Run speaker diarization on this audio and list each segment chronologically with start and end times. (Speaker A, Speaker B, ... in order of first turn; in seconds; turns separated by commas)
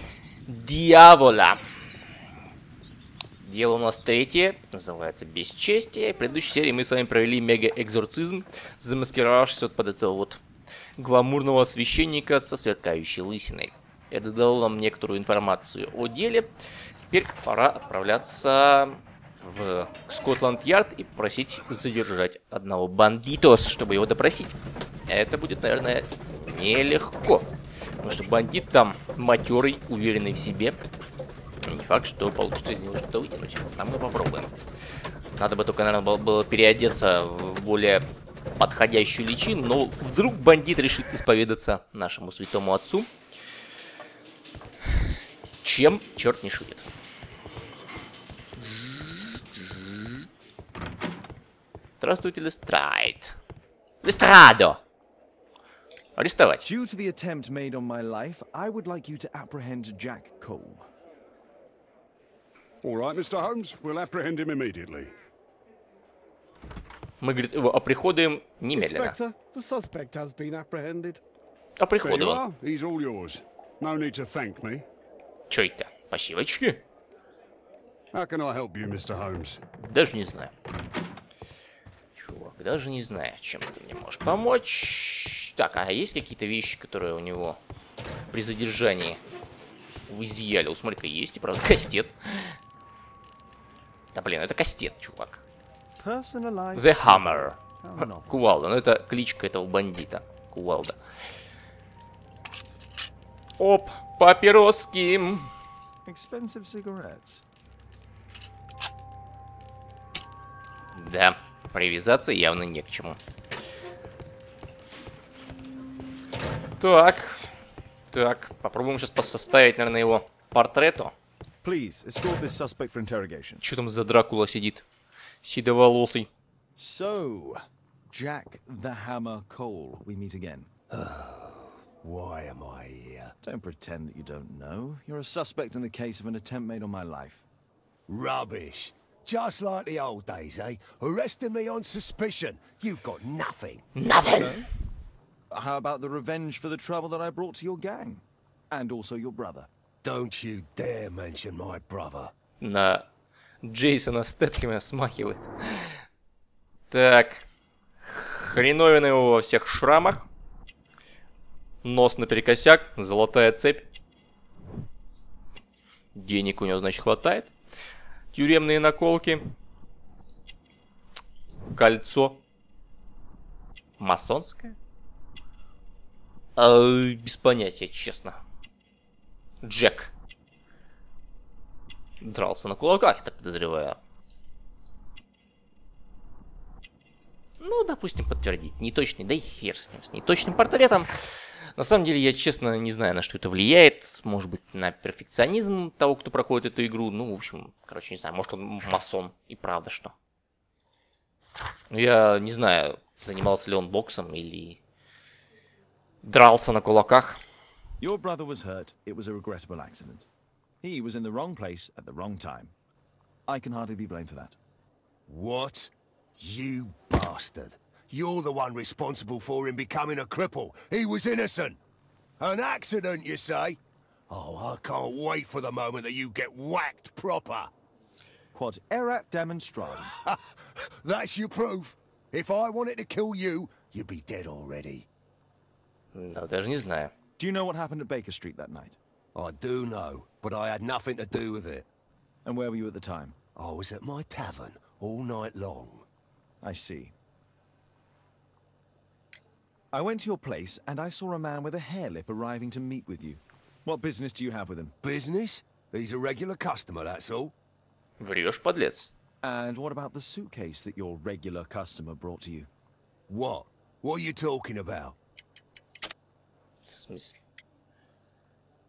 Speaker A: 0.5-1.6, Speaker A: 3.4-10.4, Speaker A: 11.0-16.5, Speaker A: 17.1-24.5, Speaker A: 25.1-27.5, Speaker A: 28.0-30.8, Speaker A: 31.6-34.5, Speaker A: 35.4-38.0, Speaker A: 38.6-43.1, Speaker A: 45.6-46.9, Speaker A: 49.5-50.2, Speaker A: 52.0-53.4, Speaker A: 54.0-54.8, Speaker A: 56.2-56.6, Speaker B: 56.6-60.9, Speaker C: 62.8-65.1, Speaker A: 67.2-69.2, Speaker D: 68.8-71.2, Speaker A: 71.8-72.4, Speaker C: 72.0-74.8, Speaker A: 75.5-76.8, Speaker C: 78.1-79.6, Speaker A: 79.8-80.5, Speaker A: 82.2-87.6, Speaker A: 88.3-89.2, Speaker A: 90.1-92.6, Speaker A: 94.1-95.4, Speaker B: 96.0-98.4, Speaker A: 96.8-101.0, Speaker A: 103.6-105.5, Speaker B: 106.0-107.4, Speaker A: 110.9-113.2, Speaker A: 116.8-117.5, Speaker A: 118.1-121.1, Speaker B: 121.6-123.6, Speaker A: 123.6-124.8, Speaker A: 125.4-126.3, Speaker B: 126.8-130.7, Speaker E: 130.9-133.3, Speaker B: 133.4-137.4, Speaker E: 138.1-143.9, Speaker A: 143.9-144.7, Speaker B: 144.3-144.7, Speaker B: 145.5-149.7, Speaker E: 150.0-152.3, Speaker A: 152.6-153.1, Speaker A: 153.6-156.0, Speaker A: 156.9-157.4, Speaker A: 158.0-160.2, Speaker A: 161.8-163.9, Speaker A: 166.2-167.5, Speaker A: 168.3-169.5, Speaker A: 171.7-172.4, Speaker A: 174.0-174.8, Speaker A: 176.6-178.4, Speaker A: 179.6-180.1, Speaker A: 182.2-184.0, Speaker A: 187.6-191.1, Speaker A: 191.8-200.1, Speaker A: 201.9-204.8, Speaker A: 206.2-207.4, Speaker B: 208.0-210.3, Speaker B: 210.8-212.7, Speaker B: 213.5-214.6, Speaker E: 215.3-221.8, Speaker E: 222.4-227.7, Speaker B: 228.5-230.1, Speaker E: 230.2-235.1, Speaker A: 236.1-237.1, Speaker B: 237.4-239.0, Speaker E: 239.3-241.9, Speaker B: 242.4-243.4, Speaker E: 243.6-246.1, Speaker B: 246.6-247.1, Speaker B: 249.9-254.9, Speaker E: 255.0-257.5, Speaker A: 258.2-259.1, Speaker B: 259.4-262.7, Speaker E: 263.3-265.2, Speaker A: 266.9-267.4